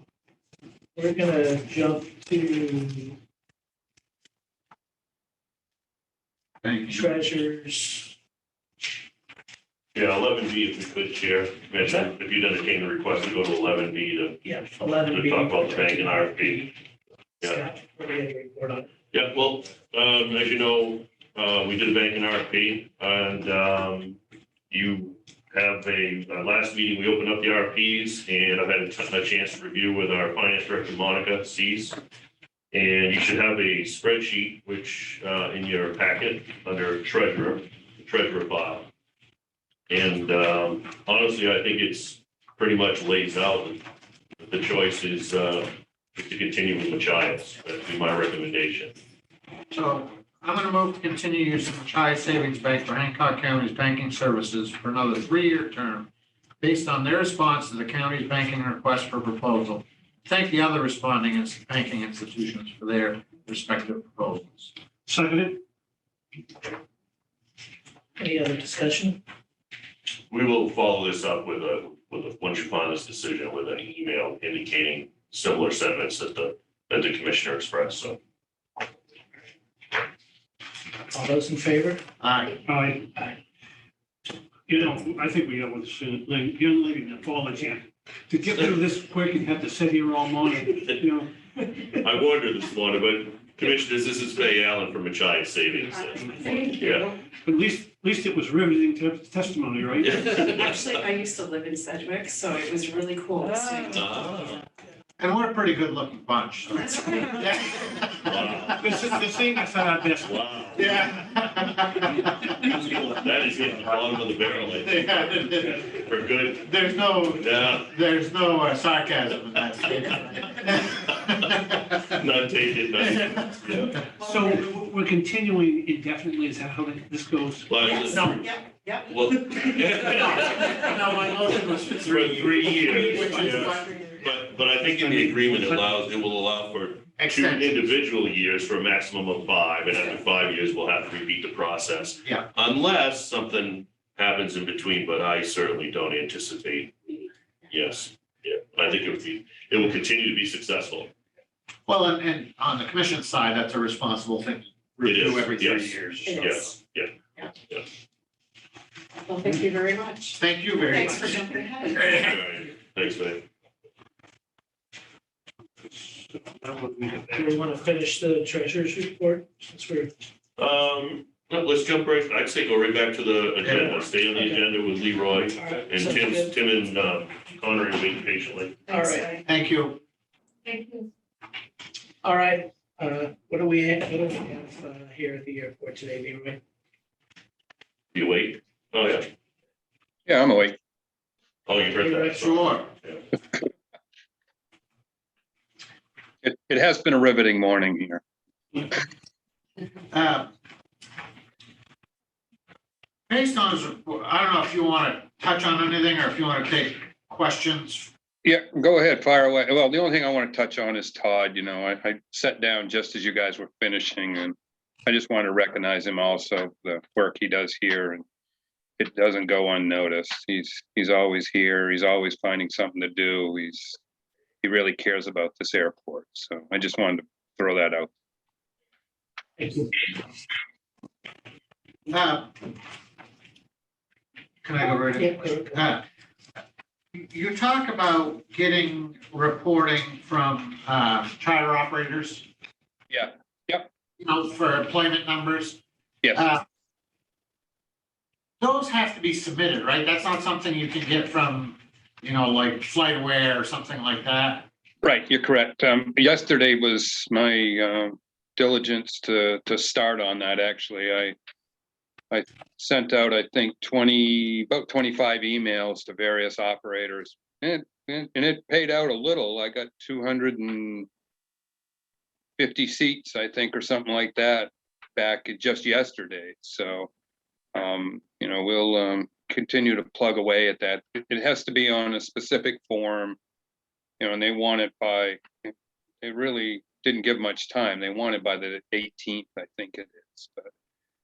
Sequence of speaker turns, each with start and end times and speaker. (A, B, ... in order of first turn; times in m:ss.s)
0:01.0-0:03.2 A
0:06.6-0:07.1 B
0:06.9-0:08.1 A
0:10.0-0:16.7 C
0:11.8-0:12.1 A
0:14.4-0:16.7 A
0:17.4-0:18.9 A
0:19.1-0:24.2 C
0:24.7-0:32.0 C
0:32.7-0:38.9 C
0:39.9-0:43.8 C
0:44.4-0:48.9 C
0:49.7-0:56.1 B
0:56.6-1:04.7 B
1:05.1-1:05.5 D
1:08.2-1:09.2 A
1:10.3-1:18.2 C
1:21.1-1:22.0 A
1:22.2-1:22.6 B
1:22.7-1:23.0 D
1:24.7-1:31.3 D
1:28.5-1:28.8 C
1:32.0-1:37.2 C
1:35.9-1:37.1 E
1:37.4-1:40.5 D
1:40.0-1:41.0 C
1:40.4-1:44.3 E
1:43.9-1:44.6 C
1:45.2-1:49.1 B
1:46.8-1:47.5 E
1:48.2-1:48.9 C
1:48.8-1:50.3 D
1:50.2-1:51.0 C
1:50.8-1:52.8 B
1:52.8-1:56.7 C
1:54.7-1:55.9 B
1:56.5-2:02.0 B
1:57.4-1:57.9 C
2:01.6-2:04.0 C
2:04.2-2:07.7 D
2:07.7-2:08.4 C
2:07.8-2:10.9 E
2:08.2-2:08.4 B
2:09.1-2:10.9 C
2:10.1-2:14.0 B
2:11.9-2:31.1 C
2:12.1-2:12.6 F
2:12.9-2:13.8 E
2:17.2-2:17.8 B
2:31.9-2:36.7 B
2:35.0-2:37.1 C
2:36.2-2:36.7 E
2:39.2-2:42.4 E
2:40.4-2:42.4 B
2:42.2-2:43.4 C
2:45.9-2:47.4 D
2:47.3-2:50.1 A
2:50.6-2:58.9 C
2:53.6-2:54.0 B
2:54.2-2:54.7 A
2:55.4-2:56.5 A
2:58.9-2:59.4 E
2:58.9-2:59.3 A
2:59.4-3:00.0 B
3:00.7-3:01.0 E
3:02.2-3:06.6 A
3:08.1-3:09.3 C
3:10.3-3:10.8 F
3:11.7-3:13.2 C
3:12.0-3:12.6 A
3:12.4-3:12.9 B
3:16.4-3:18.2 F
3:20.1-3:20.5 B
3:23.3-3:28.1 B
3:28.4-3:38.2 F
3:39.0-3:44.0 F
3:44.6-3:48.1 F
3:49.6-3:49.9 A
3:52.1-3:52.6 B
3:54.6-3:56.0 B
3:55.1-3:55.8 A
3:57.2-4:02.5 B
4:03.1-4:03.9 F
4:04.2-4:05.8 B
4:06.3-4:06.6 B
4:08.6-4:14.7 B
4:15.0-4:21.4 F
4:22.3-4:31.1 F
4:32.6-4:37.1 F
4:37.8-4:43.4 F
4:44.2-4:50.7 F